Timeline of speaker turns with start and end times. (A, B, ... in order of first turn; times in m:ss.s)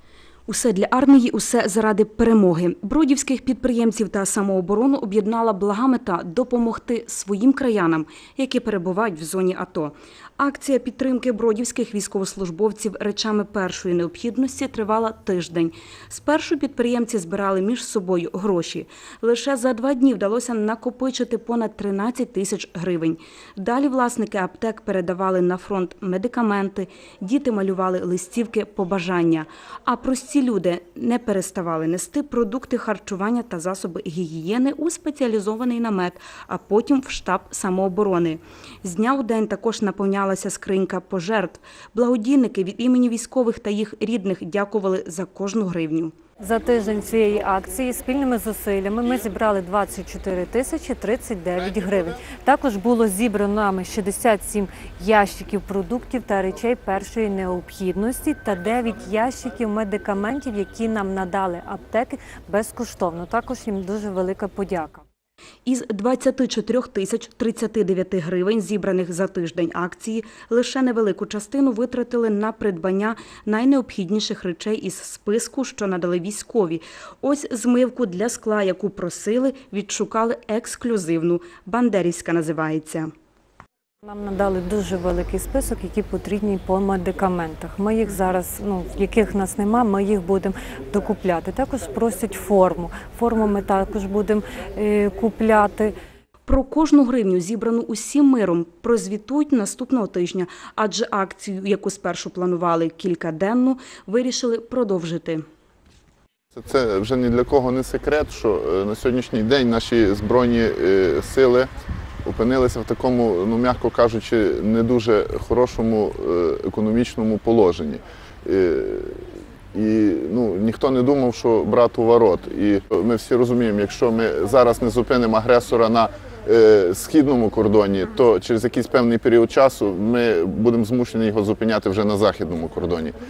0:00.5-0:46.1 A
0:46.4-1:05.0 B
1:05.7-1:23.1 A
1:24.0-1:35.9 B
1:36.5-1:45.4 A
1:46.5-1:51.7 C
1:52.2-2:13.2 C